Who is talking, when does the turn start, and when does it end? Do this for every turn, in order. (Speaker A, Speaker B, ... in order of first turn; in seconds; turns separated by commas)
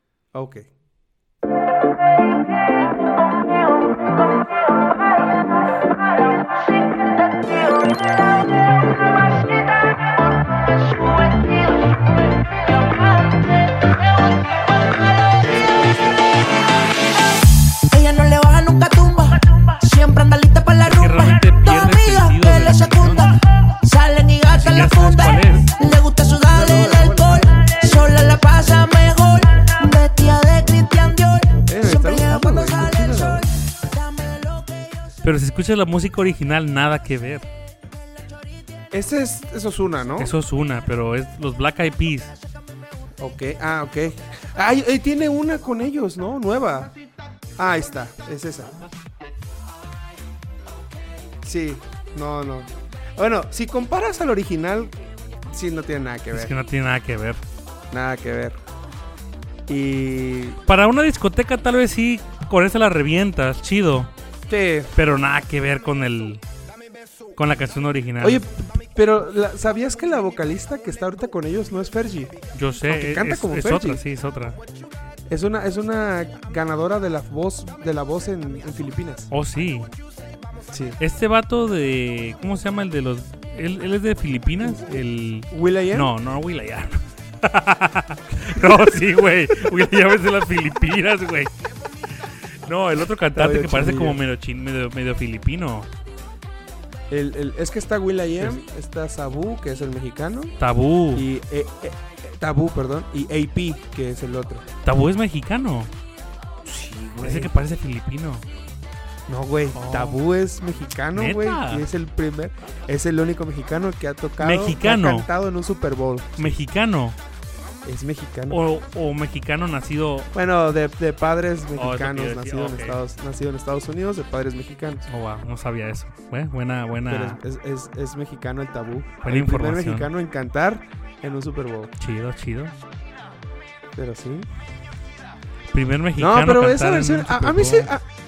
Speaker A: 0.3-0.7, Speaker B: 17.9-34.9, Speaker C: 20.8-23.3, Speaker C: 24.5-25.7, Speaker A: 26.5-28.3, Speaker A: 31.7-33.5, Speaker C: 35.2-37.5, Speaker A: 38.9-40.3, Speaker C: 40.2-42.3, Speaker A: 43.2-46.9, Speaker A: 47.6-48.8, Speaker A: 51.4-55.0, Speaker A: 55.5-56.5, Speaker C: 56.3-57.4, Speaker A: 57.9-58.6, Speaker A: 59.7-60.6, Speaker C: 60.7-64.1, Speaker A: 64.5-64.9, Speaker C: 65.0-66.4, Speaker C: 67.4-68.4, Speaker A: 68.2-72.3, Speaker C: 72.5-74.6, Speaker A: 72.9-74.0, Speaker A: 75.3-79.3, Speaker C: 79.3-79.9, Speaker A: 80.7-81.0, Speaker C: 81.0-91.5, Speaker A: 84.6-86.1, Speaker A: 88.5-89.1, Speaker C: 92.2-95.9, Speaker A: 93.3-94.2, Speaker A: 97.1-100.6, Speaker C: 100.6-101.3, Speaker A: 101.1-104.7, Speaker C: 104.8-105.9, Speaker A: 106.7-107.5, Speaker C: 107.2-108.5, Speaker A: 109.3-116.5, Speaker C: 109.7-110.2, Speaker C: 111.1-111.9, Speaker C: 114.4-115.3, Speaker C: 116.4-117.2, Speaker A: 117.8-118.6, Speaker C: 118.5-120.3, Speaker A: 120.3-125.1, Speaker C: 121.8-123.0, Speaker C: 125.1-127.4, Speaker A: 127.0-131.9, Speaker C: 129.2-130.1, Speaker C: 132.0-132.8, Speaker A: 133.9-134.5, Speaker C: 135.7-137.9, Speaker A: 136.2-138.1